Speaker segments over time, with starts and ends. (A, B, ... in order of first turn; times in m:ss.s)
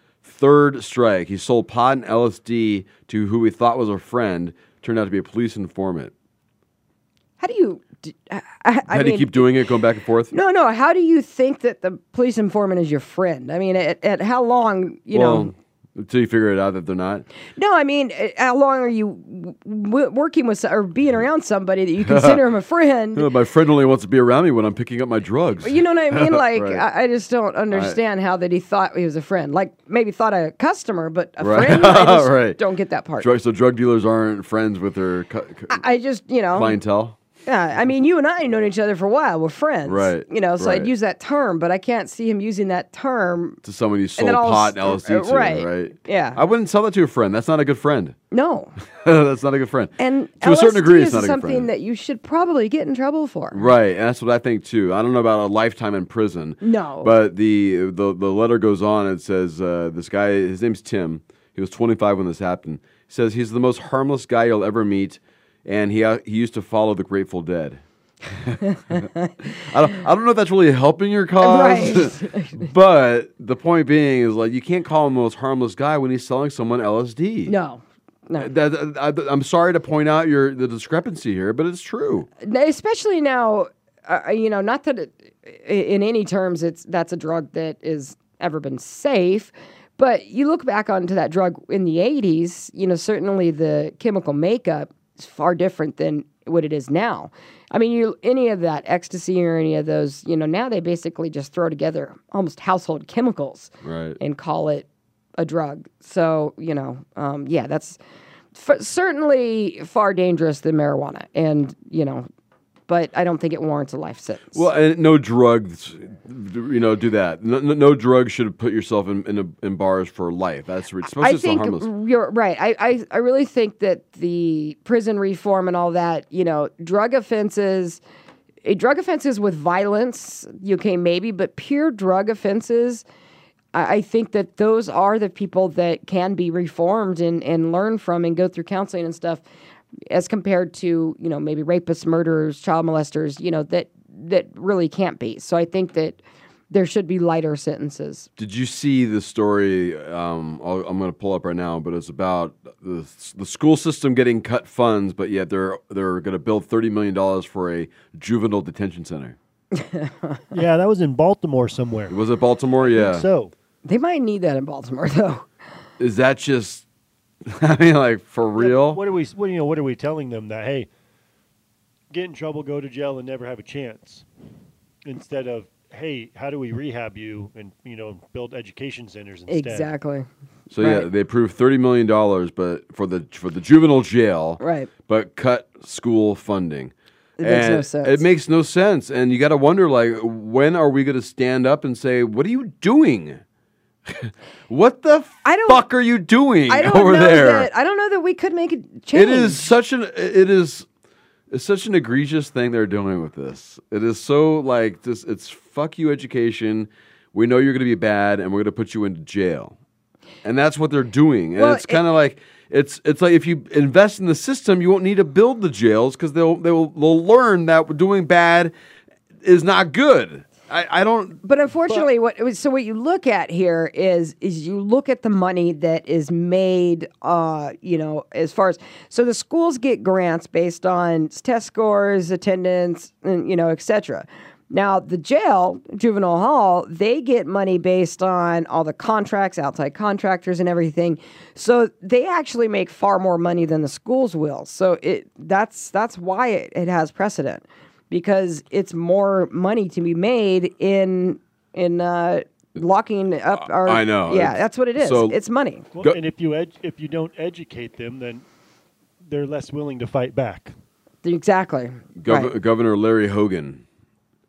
0:00.2-0:06.1 A
0:07.4-0:09.6 B
0:08.9-0:10.3 A
0:10.3-0:15.5 B
0:15.1-0:17.3 A
0:17.6-0:23.3 B
0:22.0-0:22.4 A
0:23.2-0:26.8 A
0:25.6-0:33.3 B
0:27.7-0:28.0 A
0:31.4-0:32.6 A
0:33.2-0:35.8 A
0:35.7-0:36.8 B
0:36.5-0:37.2 A
0:37.5-0:43.6 B
0:39.8-0:40.9 A
0:43.6-0:48.2 A
0:44.2-0:46.4 B
0:48.3-0:48.7 B
0:48.8-0:51.7 A
0:50.0-0:53.6 B
0:53.5-1:17.5 A
0:56.6-0:57.2 B
1:08.6-1:09.3 B
1:11.4-1:12.7 B
1:17.5-1:18.5 B
1:18.4-1:22.3 A
1:22.4-1:44.9 B
1:43.8-1:44.2 A
1:45.4-1:48.0 B
1:48.6-1:52.3 B
1:52.9-1:54.7 B
1:54.5-2:01.9 A
2:01.2-2:08.0 B
2:08.6-2:13.0 B
2:13.7-2:19.4 B
2:20.1-2:28.3 B
2:28.4-2:39.4 A
2:39.7-2:40.5 B
2:40.5-2:42.2 C
2:42.1-2:43.2 A
2:42.8-2:43.5 C
2:43.8-2:45.5 B
2:46.0-2:46.8 A
2:47.5-2:49.0 A
2:48.6-2:50.9 C
2:52.1-2:54.3 C
2:55.1-2:59.9 C
2:59.5-3:00.3 B
3:00.7-3:13.4 A
3:00.8-3:01.1 B
3:04.6-3:04.9 B
3:07.4-3:08.2 B
3:14.1-3:17.7 A
3:15.4-3:15.8 B
3:16.7-3:19.7 B
3:19.1-3:20.9 A
3:21.5-3:29.8 A
3:30.4-3:38.7 A
3:31.6-3:32.0 B
3:39.4-3:41.4 A
3:41.4-4:15.9 B
4:13.6-4:15.4 A
4:16.0-4:18.4 C
4:19.2-4:20.7 C
4:21.2-4:22.5 B
4:22.2-4:23.8 A